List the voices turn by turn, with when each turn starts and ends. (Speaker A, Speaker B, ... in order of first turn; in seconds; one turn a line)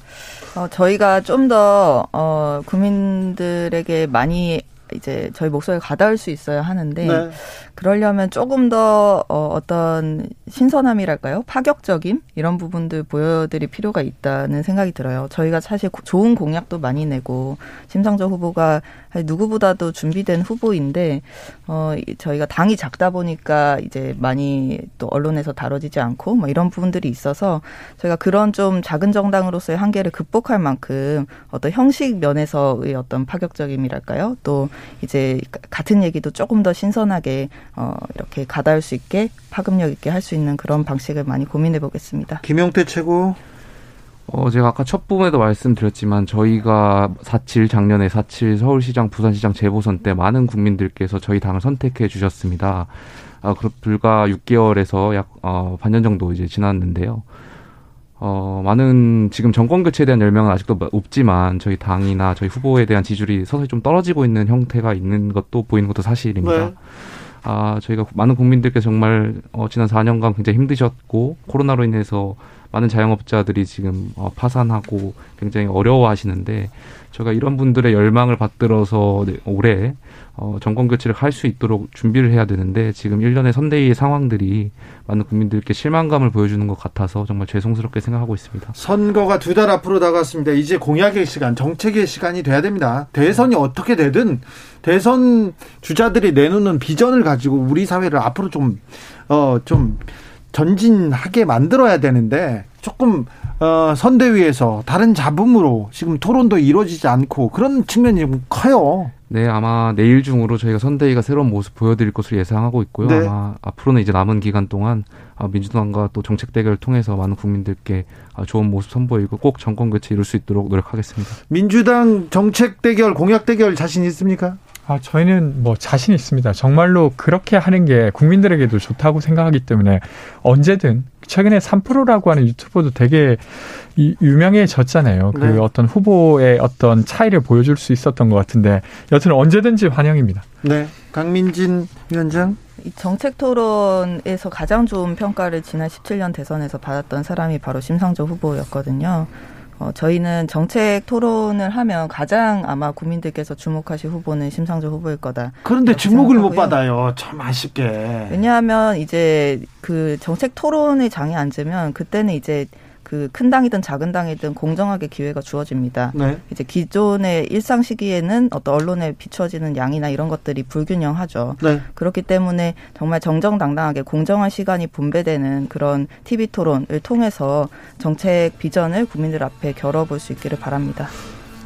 Speaker A: 0.6-42.4
Speaker B: 7.0-7.3
Speaker B: 42.4-43.4
Speaker C: 44.3-57.2
Speaker C: 58.2-88.8
Speaker B: 66.4-66.7
Speaker B: 88.8-109.1
Speaker C: 109.3-121.4
Speaker B: 113.0-113.3
Speaker B: 121.5-124.6
Speaker D: 124.9-140.4
Speaker B: 135.3-135.7
Speaker B: 140.6-142.6
Speaker A: 142.8-156.8
Speaker B: 155.6-158.4
Speaker A: 158.3-181.1
Speaker B: 166.1-166.4